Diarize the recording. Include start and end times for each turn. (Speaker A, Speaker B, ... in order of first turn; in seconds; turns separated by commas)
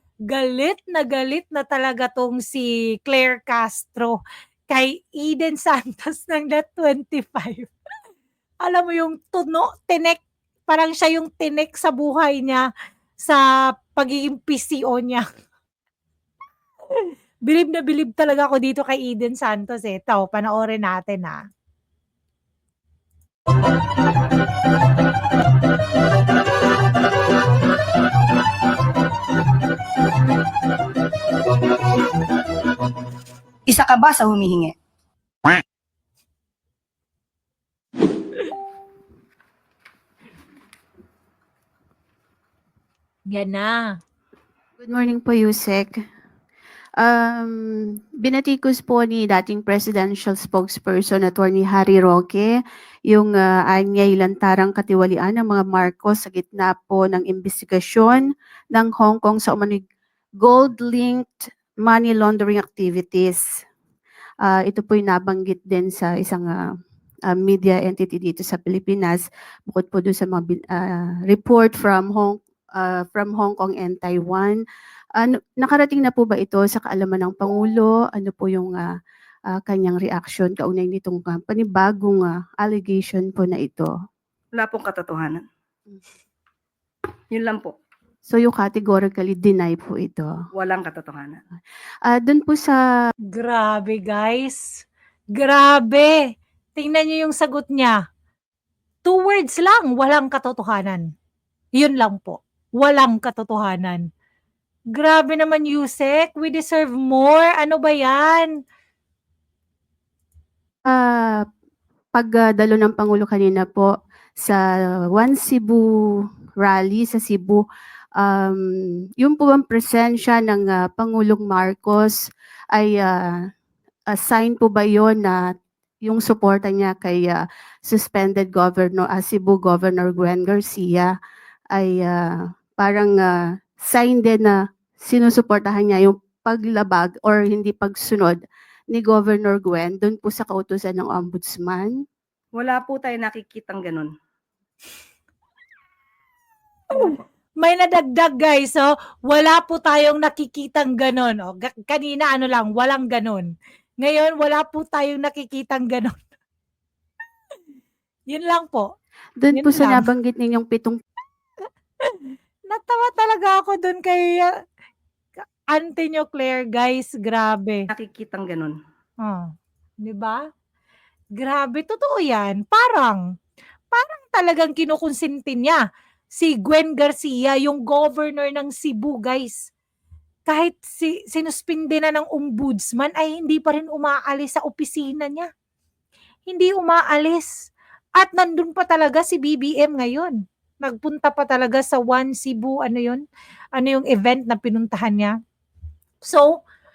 Speaker A: 0.3-4.2, Speaker A: 4.7-7.7, Speaker A: 8.6-12.7, Speaker A: 13.9-15.2, Speaker A: 16.9-21.4, Speaker B: 33.7-34.8, Speaker A: 43.3-43.9, Speaker C: 44.8-46.0, Speaker C: 47.0-59.8, Speaker C: 60.4-63.4, Speaker C: 64.4-66.6, Speaker C: 67.3-74.6, Speaker C: 75.2-78.9, Speaker C: 79.5-83.9, Speaker B: 84.6-85.4, Speaker B: 87.3-87.7, Speaker C: 88.3-90.3, Speaker B: 90.5-91.4, Speaker C: 92.1-92.8, Speaker A: 93.3-94.6, Speaker A: 95.3-96.2, Speaker A: 96.8-98.0, Speaker A: 99.0-101.0, Speaker A: 101.8-104.0, Speaker A: 104.9-108.5, Speaker C: 110.9-111.4, Speaker C: 112.2-114.6, Speaker C: 115.1-117.6, Speaker C: 118.2-122.2, Speaker C: 122.7-123.4, Speaker C: 124.1-125.5, Speaker C: 126.0-131.1, Speaker C: 131.7-138.4, Speaker C: 138.9-142.0, Speaker B: 142.6-144.1, Speaker A: 146.9-156.2, Speaker A: 158.3-158.9, Speaker C: 159.4-161.0, Speaker A: 159.5-160.1, Speaker A: 162.1-164.5, Speaker A: 165.4-167.8, Speaker B: 167.9-168.8, Speaker A: 169.2-170.4, Speaker A: 171.3-173.2, Speaker A: 173.9-175.8, Speaker A: 176.3-179.7, Speaker A: 180.5-185.5, Speaker A: 186.5-193.2, Speaker A: 193.8-195.3, Speaker A: 196.2-196.6